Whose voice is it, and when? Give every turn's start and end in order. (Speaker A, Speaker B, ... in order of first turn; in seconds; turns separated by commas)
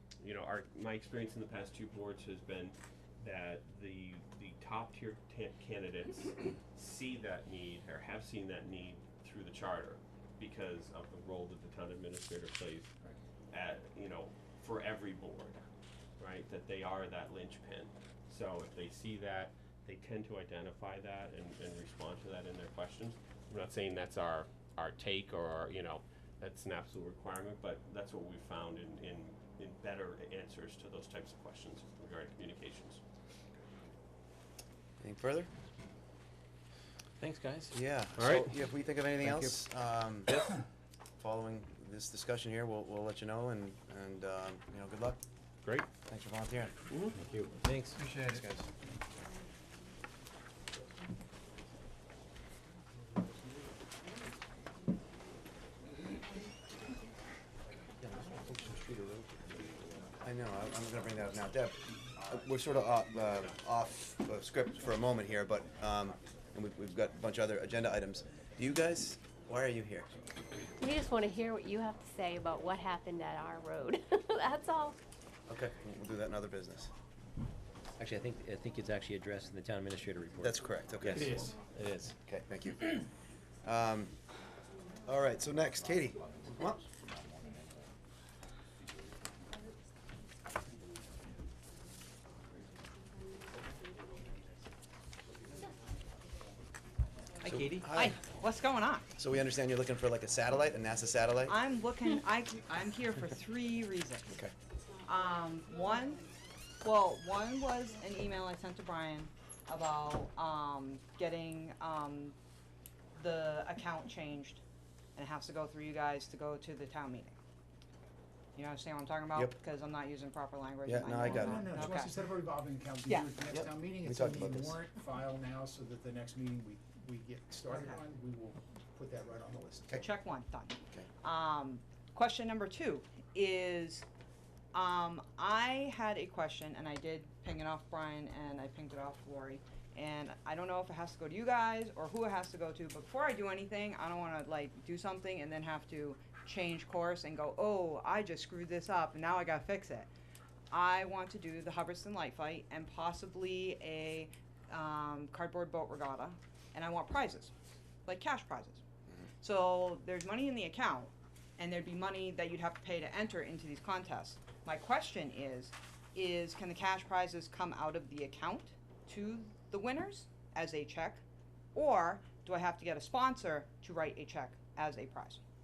Speaker A: 0.2-12.9, Speaker A: 13.5-15.6, Speaker A: 16.2-33.0, Speaker B: 35.0-35.5, Speaker C: 37.2-37.7, Speaker B: 37.7-40.4, Speaker A: 38.2-38.5, Speaker C: 39.3-39.5, Speaker B: 41.2-45.2, Speaker B: 46.1-46.7, Speaker A: 46.9-47.2, Speaker C: 47.3-48.0, Speaker B: 48.0-48.7, Speaker C: 58.0-59.7, Speaker B: 60.2-70.1, Speaker D: 70.8-75.0, Speaker B: 75.5-76.9, Speaker C: 78.0-80.4, Speaker B: 80.4-81.6, Speaker C: 81.1-82.1, Speaker B: 82.2-83.1, Speaker B: 83.6-84.2, Speaker B: 85.1-86.8, Speaker B: 97.5-98.2, Speaker C: 97.5-97.8, Speaker E: 97.7-99.1, Speaker B: 99.2-101.6, Speaker E: 101.5-104.3, Speaker E: 105.0-106.2, Speaker E: 106.8-112.4, Speaker E: 113.2-114.6, Speaker E: 115.2-117.4, Speaker E: 118.6-122.2, Speaker B: 120.8-121.9, Speaker F: 121.2-130.1, Speaker E: 123.1-123.3, Speaker B: 123.5-124.8, Speaker E: 127.7-128.0, Speaker E: 130.0-134.1, Speaker E: 134.7-150.1, Speaker E: 150.7-157.5, Speaker E: 158.1-158.8, Speaker E: 159.4-171.2, Speaker E: 171.7-175.4